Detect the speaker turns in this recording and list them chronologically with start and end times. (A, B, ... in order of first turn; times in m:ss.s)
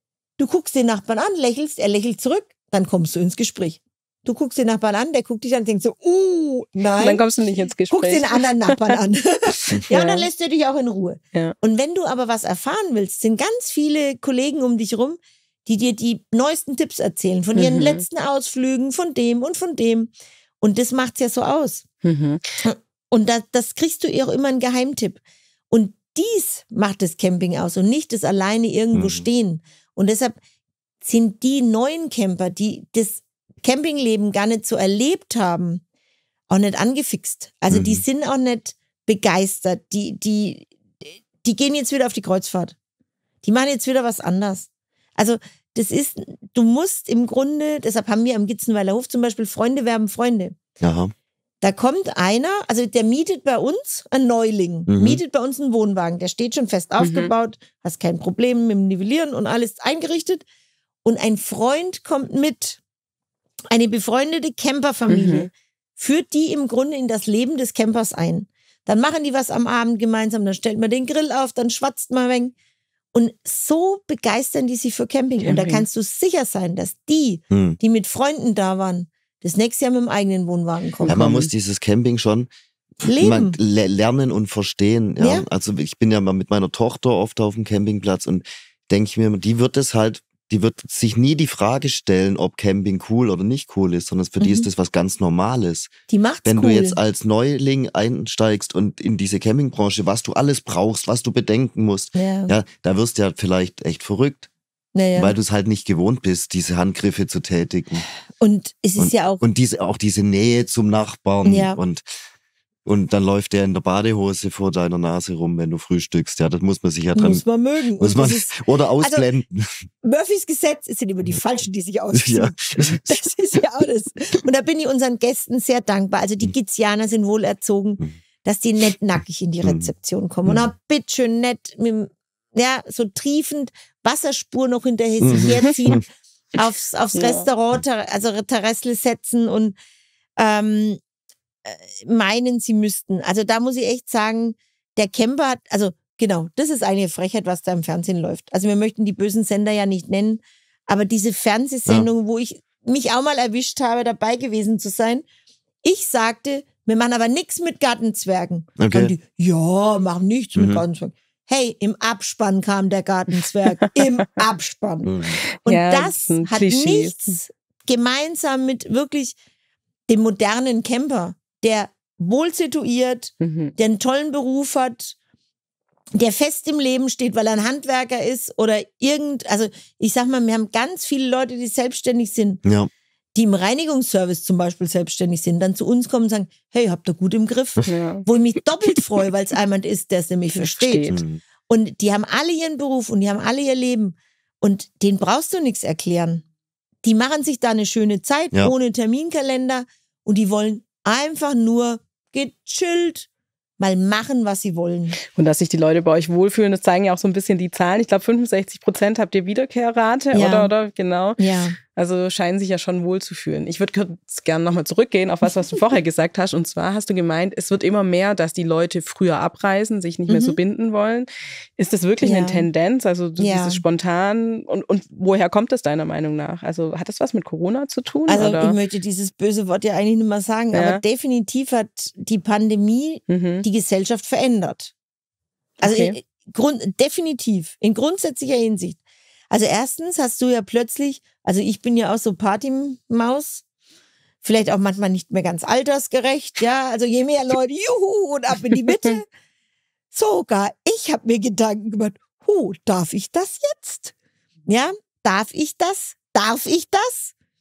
0:00.4-0:07.2 A
0:07.0-0:09.0 B
0:07.9-0:21.8 A
0:09.9-0:10.3 B
0:17.6-0:18.0 B
0:22.0-0:22.4 B
0:22.6-0:30.4 A
0:28.9-0:29.3 C
0:31.0-0:35.8 A
0:36.5-0:40.7 A
0:37.7-0:38.0 C
0:41.4-0:42.8 A
0:43.4-0:50.6 A
0:50.8-0:51.1 C
0:51.6-1:00.4 A
0:54.9-0:55.2 C
0:57.0-0:57.3 B
1:01.0-1:02.8 A
1:03.7-1:12.6 A
1:05.1-1:05.5 B
1:13.1-1:21.2 A
1:15.4-1:15.8 B
1:17.5-1:17.8 C
1:21.0-1:21.5 B
1:21.1-1:22.5 C
1:23.0-1:23.6 A
1:23.2-1:35.9 C
1:25.2-1:25.5 A
1:34.4-1:34.7 A
1:36.1-1:37.0 A
1:36.5-1:44.5 C
1:42.2-1:42.5 A
1:45.0-1:45.3 A
1:45.2-1:48.1 C
1:48.4-1:49.4 A
1:49.0-1:52.2 C
1:51.4-1:51.8 A
1:52.9-1:57.4 C
1:57.2-1:59.2 A
1:58.0-1:59.8 C
2:00.0-2:19.8 A
2:02.1-2:03.2 C
2:09.6-2:09.9 C
2:15.2-2:16.0 C
2:17.1-2:17.5 B
2:20.4-2:21.0 A
2:21.6-2:35.2 A
2:35.8-2:45.1 A
2:38.8-2:39.1 C
2:40.6-2:40.8 C
2:45.1-2:45.4 C
2:45.6-2:47.4 B
2:45.6-2:49.4 A
2:50.1-2:55.2 A
2:53.4-2:53.7 B
2:56.2-3:02.6 A
3:02.6-3:02.9 C
3:03.4-3:16.4 A
3:07.9-3:08.3 B
3:10.6-3:11.2 B
3:11.1-3:11.4 C
3:17.0-3:23.3 A
3:23.8-3:25.2 A
3:25.2-3:48.8 B
3:30.3-3:30.7 A
3:31.4-3:31.8 A
3:40.3-3:40.6 A
3:42.2-3:42.7 A
3:43.4-3:43.8 A
3:48.3-3:54.9 A
3:50.7-3:51.0 B
3:53.3-3:53.6 B
3:55.8-3:56.2 B
3:55.8-3:59.0 A
3:59.5-4:03.6 A
4:04.4-4:09.3 A
4:10.1-4:14.1 A
4:14.7-4:17.3 A